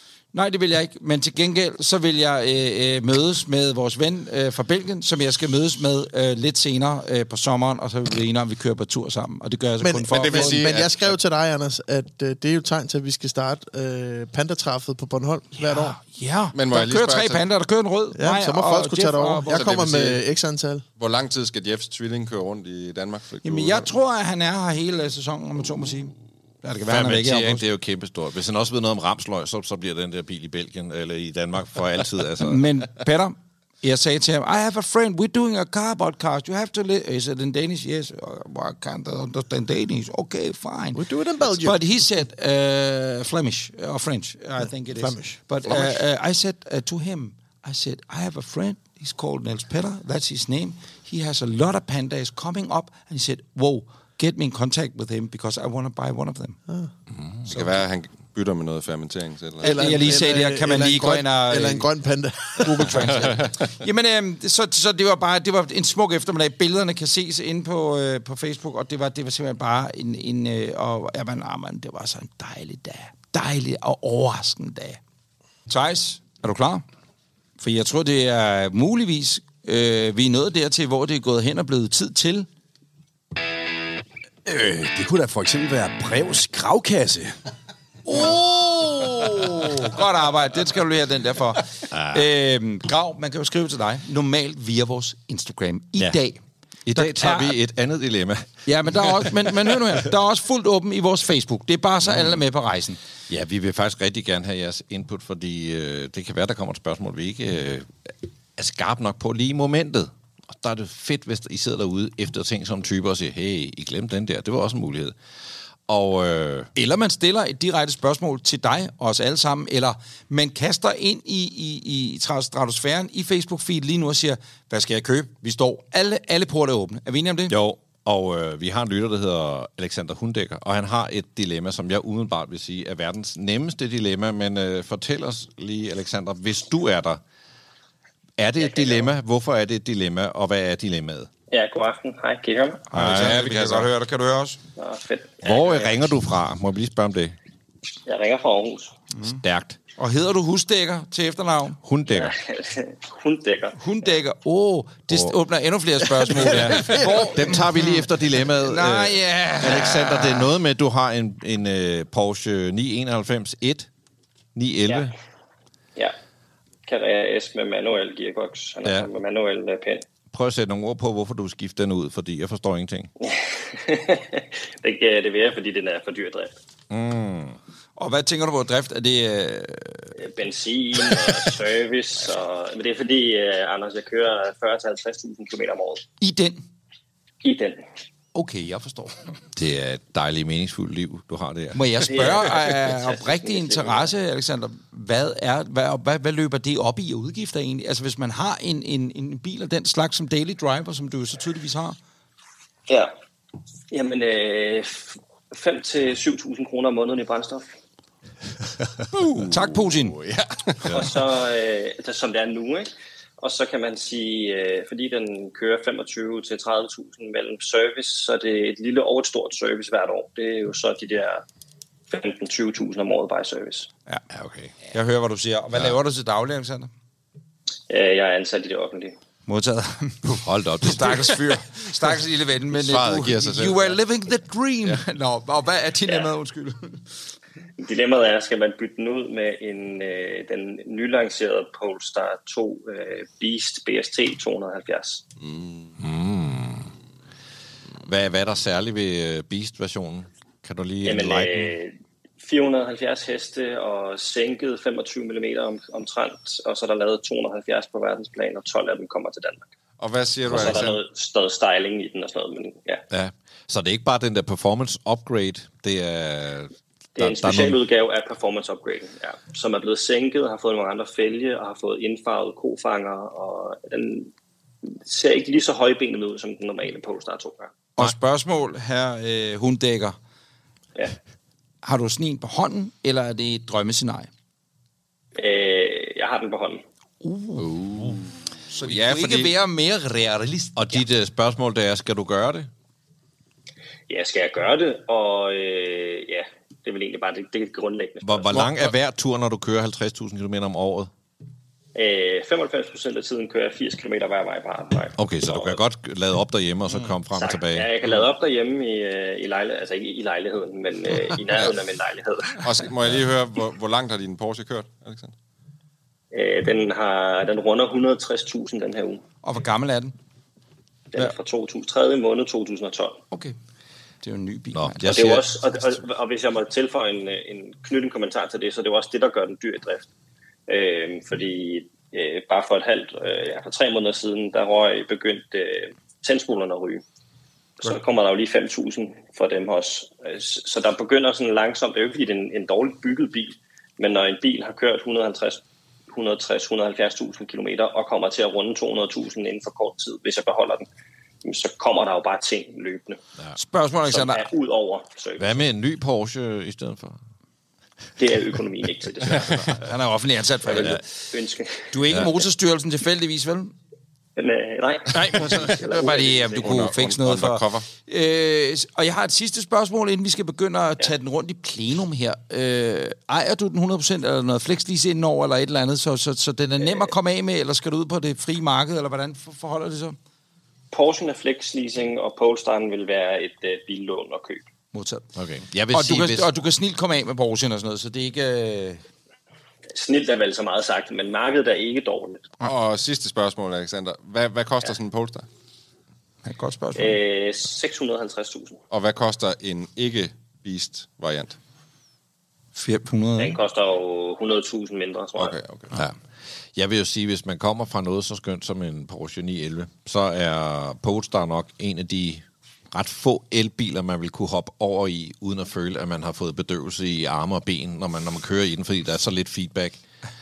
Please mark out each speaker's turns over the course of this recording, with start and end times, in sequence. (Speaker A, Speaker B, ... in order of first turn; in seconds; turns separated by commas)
Speaker A: 0.3-10.6, Speaker B: 9.8-16.0, Speaker C: 10.1-11.1, Speaker A: 15.6-20.1, Speaker C: 16.5-17.4, Speaker B: 18.1-20.8, Speaker C: 19.5-20.2, Speaker C: 21.0-23.9, Speaker A: 23.4-27.6, Speaker D: 26.9-32.6, Speaker A: 32.4-56.6, Speaker B: 41.0-41.8, Speaker B: 45.0-46.0, Speaker C: 57.5-60.2, Speaker A: 59.6-61.9, Speaker B: 59.6-63.4, Speaker A: 62.6-75.0, Speaker A: 75.7-76.8, Speaker A: 77.6-82.5, Speaker E: 84.5-87.4, Speaker A: 88.1-96.4, Speaker D: 91.9-92.3, Speaker D: 96.9-99.5, Speaker A: 96.9-97.6, Speaker A: 98.7-103.0, Speaker D: 103.3-115.2, Speaker D: 115.9-116.7, Speaker A: 116.8-127.6, Speaker D: 127.5-137.2, Speaker D: 138.4-141.3, Speaker F: 138.6-139.1, Speaker F: 141.5-142.8, Speaker A: 142.9-144.6, Speaker D: 142.9-143.5, Speaker C: 143.0-143.9, Speaker F: 144.8-146.0, Speaker D: 145.4-147.4, Speaker F: 148.1-148.9, Speaker D: 149.2-149.8, Speaker A: 150.0-151.8, Speaker D: 151.8-152.4, Speaker F: 152.1-153.8, Speaker A: 153.8-158.1, Speaker D: 155.1-155.3, Speaker D: 156.3-163.9, Speaker B: 156.7-157.0, Speaker A: 158.6-160.5, Speaker D: 164.6-165.1, Speaker F: 166.9-170.1, Speaker D: 170.3-173.1, Speaker F: 173.2-176.6, Speaker D: 176.9-177.6, Speaker A: 178.0-180.1, Speaker F: 180.2-186.1, Speaker A: 186.2-186.6, Speaker F: 187.4-187.8, Speaker A: 188.3-189.2, Speaker D: 189.6-191.8, Speaker A: 191.7-202.0, Speaker F: 192.1-194.1, Speaker F: 202.9-203.1, Speaker F: 203.9-207.7, Speaker C: 209.1-210.9, Speaker A: 209.5-210.2, Speaker D: 210.8-211.1, Speaker F: 210.9-212.9, Speaker F: 213.4-221.4, Speaker F: 222.1-223.9, Speaker D: 224.3-224.8, Speaker A: 224.9-226.9, Speaker F: 227.9-229.2, Speaker A: 229.5-237.0, Speaker D: 230.4-231.4, Speaker C: 232.7-233.9, Speaker F: 237.8-245.2, Speaker C: 245.4-245.9, Speaker D: 246.0-246.9, Speaker D: 248.0-251.7, Speaker F: 251.0-259.6, Speaker C: 260.0-261.0, Speaker D: 260.5-260.8, Speaker F: 260.5-263.0, Speaker D: 263.1-267.8, Speaker F: 267.2-274.3, Speaker F: 274.9-277.7, Speaker A: 278.0-280.2, Speaker A: 281.8-284.3, Speaker F: 285.4-286.8, Speaker A: 287.2-287.7, Speaker D: 287.6-288.2, Speaker A: 288.7-291.1, Speaker C: 288.8-289.5, Speaker D: 290.8-292.7, Speaker F: 294.1-298.5, Speaker D: 298.2-301.1, Speaker F: 301.9-305.8, Speaker D: 305.2-307.9, Speaker F: 307.4-312.6, Speaker C: 312.6-315.3, Speaker F: 316.3-319.2, Speaker A: 319.4-320.1, Speaker F: 321.1-323.2, Speaker A: 324.2-325.1, Speaker D: 324.7-325.5, Speaker F: 325.1-330.1, Speaker F: 330.7-337.0, Speaker F: 337.8-350.9, Speaker F: 351.4-353.2, Speaker A: 353.6-354.5, Speaker F: 354.1-355.6, Speaker D: 355.4-357.2, Speaker F: 358.2-359.7, Speaker C: 359.4-359.7, Speaker A: 359.8-361.0, Speaker F: 360.7-361.9, Speaker A: 361.9-363.7, Speaker F: 364.4-366.8, Speaker A: 365.1-380.2, Speaker C: 366.6-367.9, Speaker F: 376.8-377.1, Speaker F: 380.9-384.6, Speaker A: 384.9-385.3, Speaker D: 385.4-386.5, Speaker A: 385.9-389.0, Speaker F: 389.9-392.5, Speaker C: 392.6-395.5, Speaker A: 396.4-397.2, Speaker F: 397.0-398.8, Speaker C: 398.9-401.6, Speaker A: 402.8-403.6, Speaker F: 403.4-405.6, Speaker C: 405.4-405.9, Speaker D: 406.8-420.0